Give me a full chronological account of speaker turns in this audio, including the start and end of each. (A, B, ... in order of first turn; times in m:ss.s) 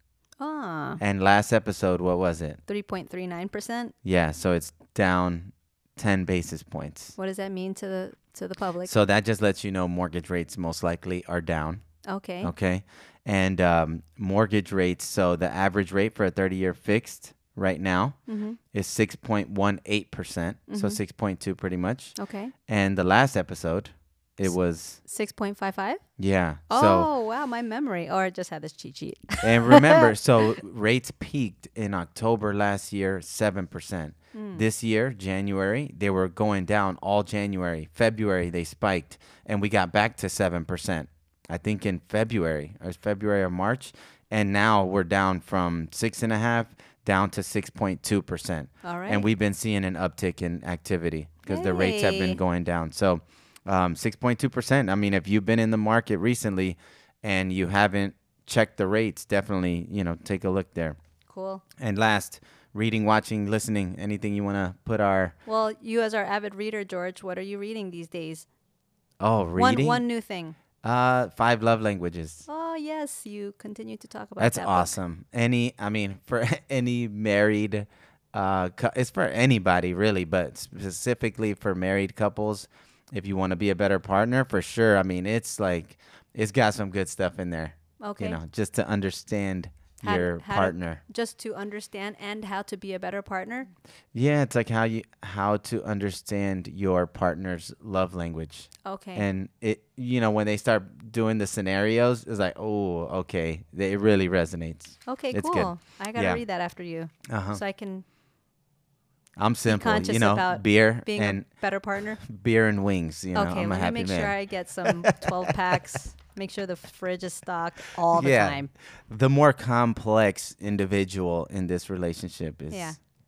0:00.4-0:01.0 A
0:01.0-0:02.6 B
0:02.7-0:03.9 A
0:04.0-0:07.1 B
0:07.2-0:08.9 A
0:08.8-0:11.8 B
0:12.0-0:12.5 A
0:12.4-0:18.2 B
0:18.3-0:18.6 A
0:18.7-0:22.1 B
0:20.7-0:21.0 A
0:22.2-0:22.5 A
0:22.7-0:25.0 B
0:25.0-0:26.0 A
0:26.2-0:27.1 B
0:26.7-0:30.5 A
0:29.4-1:01.0 B
0:34.3-0:34.6 A
0:48.8-0:49.2 A
0:51.5-0:52.4 A
1:01.3-1:01.6 A
1:01.8-1:05.4 B
1:05.4-1:08.5 A
1:09.2-1:10.0 B
1:09.6-1:10.6 A
1:10.8-1:12.4 B
1:12.5-1:14.9 A
1:14.4-1:31.0 B
1:28.0-1:28.4 A
1:30.0-1:33.7 A
1:34.1-1:46.4 B
1:38.8-1:39.2 A
1:45.1-1:48.0 A
1:47.3-1:47.6 B
1:49.4-1:51.4 B
1:49.7-1:52.2 A
1:52.2-1:55.6 B
1:53.3-1:58.7 A
1:58.1-2:02.9 B
2:02.7-2:03.0 A